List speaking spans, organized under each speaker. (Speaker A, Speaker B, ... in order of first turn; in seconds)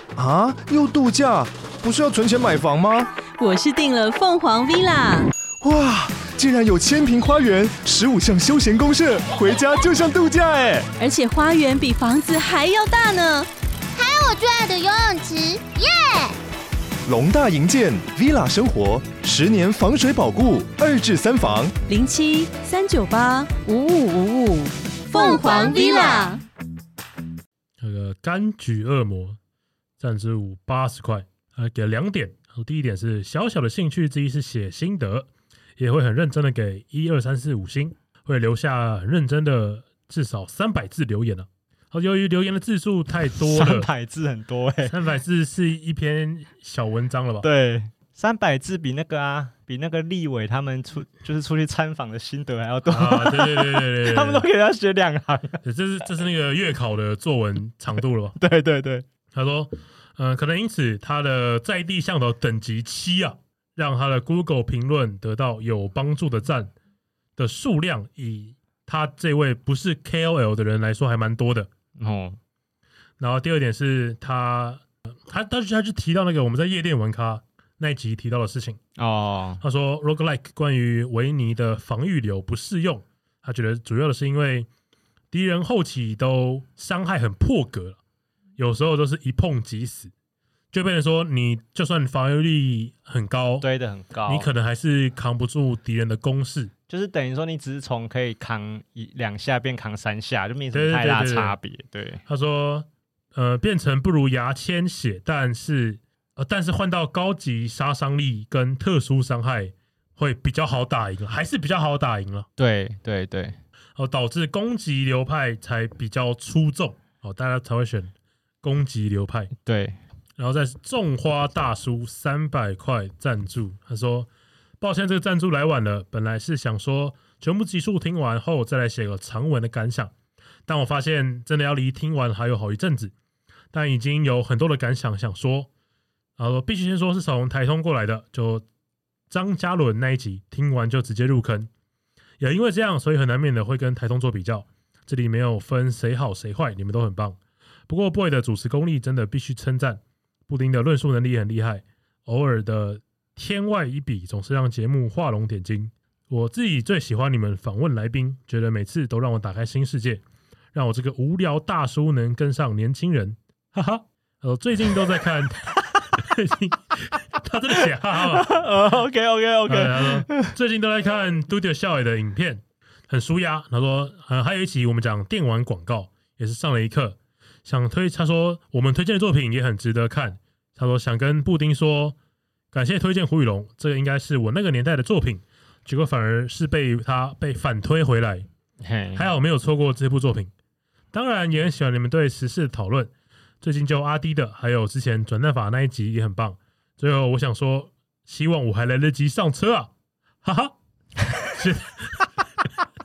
Speaker A: 0.2-3.1, 5.6-10.9, 17.1-21.7
Speaker B: 3.4-5.3, 11.0-13.5, 21.9-26.4
Speaker C: 13.9-16.4, 25.1-26.4
Speaker D: 27.8-29.4, 30.0-43.9, 44.9-47.5, 52.9-54.5, 55.6-58.4, 59.3-66.7, 67.4-71.7, 73.2-78.8, 79.6-84.7, 85.3-88.0, 88.6-90.1, 90.7-93.7, 94.3-96.7, 100.7-101.6, 102.3-112.5, 114.0-119.5, 120.4-124.3, 124.8-130.1, 130.7-133.1, 133.7-135.7, 136.4-138.6, 139.3-141.7, 142.4-147.4, 147.9-160.2, 160.7-168.7, 169.7-182.2, 182.7-188.5, 189.2-190.5, 191.1-193.1, 193.6-199.9, 200.4-200.8, 201.4-202.3
Speaker E: 43.4-44.9, 47.4-55.6, 58.4-59.0, 72.0-72.4, 79.0-79.6, 93.6-94.5, 96.9-102.2, 112.6-113.6, 119.6-120.0, 168.2-170.5, 188.8-189.2